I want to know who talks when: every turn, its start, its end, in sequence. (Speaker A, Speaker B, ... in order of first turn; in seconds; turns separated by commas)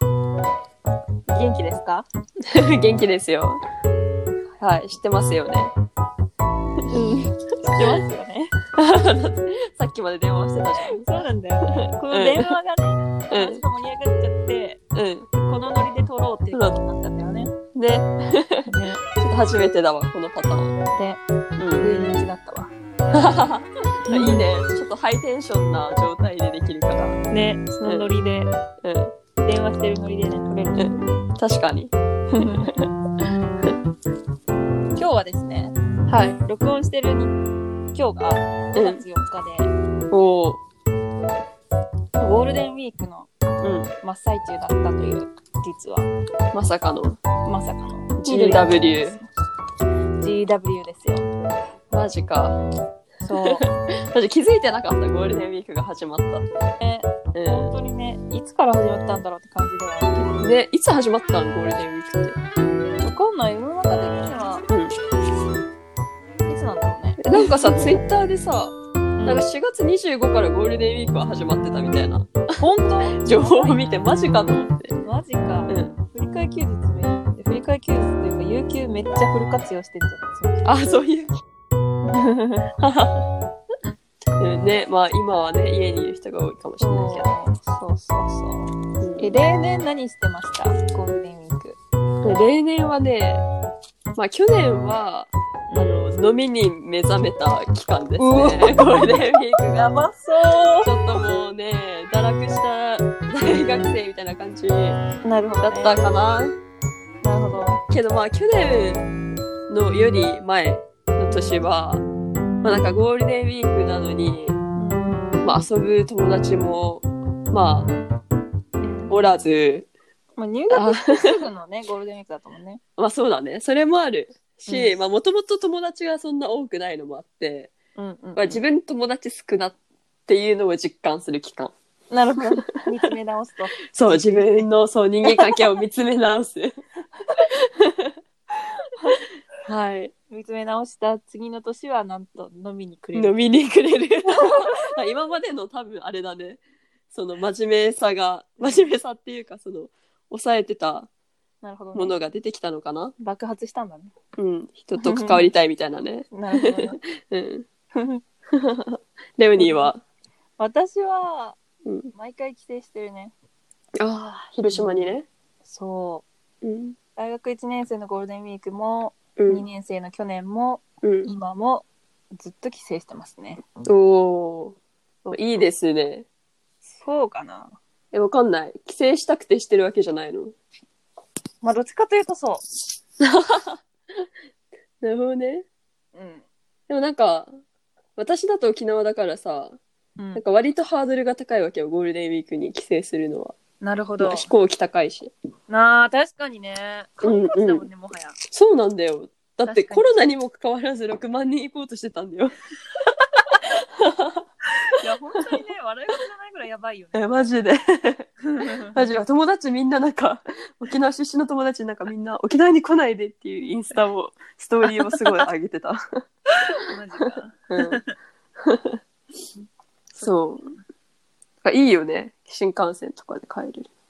Speaker A: 1.3-2.1, Speaker B: 2.5-3.6, Speaker B: 4.6-5.7, Speaker A: 6.9-8.5, Speaker B: 8.7-12.5, Speaker A: 10.9-14.8, Speaker B: 13.3-13.6, Speaker B: 14.9-15.3, Speaker A: 15.3-17.5, Speaker B: 17.7-20.7, Speaker A: 18.7-19.0, Speaker A: 20.9-21.2, Speaker B: 21.6-21.9, Speaker A: 21.8-23.3, Speaker B: 23.1-27.2, Speaker A: 24.1-24.4, Speaker A: 27.3-28.5, Speaker B: 27.8-28.1, Speaker B: 28.8-29.1, Speaker A: 29.4-30.9, Speaker B: 30.8-32.7, Speaker A: 32.4-32.9, Speaker A: 35.0-35.7, Speaker B: 36.1-36.4, Speaker A: 36.4-37.4, Speaker A: 37.9-39.7, Speaker B: 38.7-39.0, Speaker B: 40.1-40.6, Speaker A: 42.2-43.3, Speaker B: 43.6-43.9, Speaker A: 44.0-46.1, Speaker B: 46.5-47.2, Speaker A: 47.4-49.3, Speaker B: 48.2-49.2, Speaker A: 50.2-51.3, Speaker B: 51.9-52.6, Speaker A: 53.2-53.6, Speaker B: 53.4-56.5, Speaker A: 56.8-60.4, Speaker B: 57.3-57.7, Speaker B: 60.3-62.4, Speaker A: 63.0-64.7, Speaker B: 64.7-64.9, Speaker A: 66.5-67.9, Speaker B: 67.2-72.3, Speaker A: 69.2-69.5, Speaker A: 72.6-73.8, Speaker B: 73.2-74.9, Speaker A: 75.0-80.6, Speaker B: 75.7-75.9, Speaker B: 80.6-81.4, Speaker A: 82.1-82.6, Speaker B: 82.8-83.2, Speaker B: 84.4-87.3, Speaker A: 86.8-91.8, Speaker B: 89.0-89.3, Speaker B: 92.2-93.5, Speaker B: 94.1-99.9, Speaker A: 95.7-96.1, Speaker A: 98.2-101.2, Speaker B: 100.8-105.0, Speaker A: 105.2-106.1, Speaker B: 105.6-106.5, Speaker A: 107.2-107.8, Speaker B: 107.9-109.1, Speaker B: 109.7-112.0, Speaker A: 111.3-111.6, Speaker B: 112.6-114.6, Speaker A: 114.8-115.4, Speaker B: 115.4-117.9, Speaker A: 118.8-119.1, Speaker B: 119.1-119.9, Speaker A: 120.4-122.8, Speaker B: 120.7-121.4, Speaker B: 123.0-127.7, Speaker A: 124.7-125.0, Speaker A: 128.0-128.6, Speaker B: 128.3-131.7, Speaker A: 132.1-134.7, Speaker B: 133.9-136.8, Speaker A: 135.3-135.5, Speaker B: 137.4-138.2, Speaker B: 139.6-140.1, Speaker A: 140.3-143.5, Speaker B: 143.1-146.6, Speaker A: 144.3-144.6, Speaker B: 147.1-151.1, Speaker A: 148.6-148.9, Speaker A: 151.6-152.2, Speaker B: 151.9-153.1, Speaker A: 153.2-154.1, Speaker B: 154.4-157.7, Speaker A: 154.9-155.5, Speaker A: 156.3-157.0, Speaker A: 157.9-158.2, Speaker B: 158.5-160.0, Speaker A: 159.6-159.9, Speaker A: 160.6-161.6, Speaker B: 161.8-162.1, Speaker A: 162.1-163.3, Speaker B: 164.0-165.2, Speaker A: 164.7-166.2, Speaker B: 166.6-166.9, Speaker A: 167.2-173.6, Speaker B: 169.4-169.6, Speaker B: 171.0-171.3, Speaker B: 173.8-176.2, Speaker A: 176.8-177.8, Speaker B: 178.1-180.5, Speaker A: 181.6-182.6, Speaker B: 183.2-183.8, Speaker B: 185.0-185.7, Speaker A: 186.1-186.4, Speaker B: 186.9-187.5, Speaker B: 188.2-189.8, Speaker A: 190.2-190.4, Speaker B: 190.3-193.5, Speaker A: 193.8-194.5, Speaker B: 194.2-195.3, Speaker A: 195.7-198.4, Speaker B: 197.2-197.9, Speaker B: 198.5-202.5, Speaker A: 199.6-200.3, Speaker B: 203.5-204.4, Speaker A: 205.0-207.5, Speaker B: 205.3-205.6, Speaker B: 207.1-216.0, Speaker A: 208.5-209.0, Speaker A: 216.6-218.0, Speaker B: 216.7-218.0, Speaker B: 218.6-219.0, Speaker B: 220.1-220.7, Speaker B: 221.6-223.9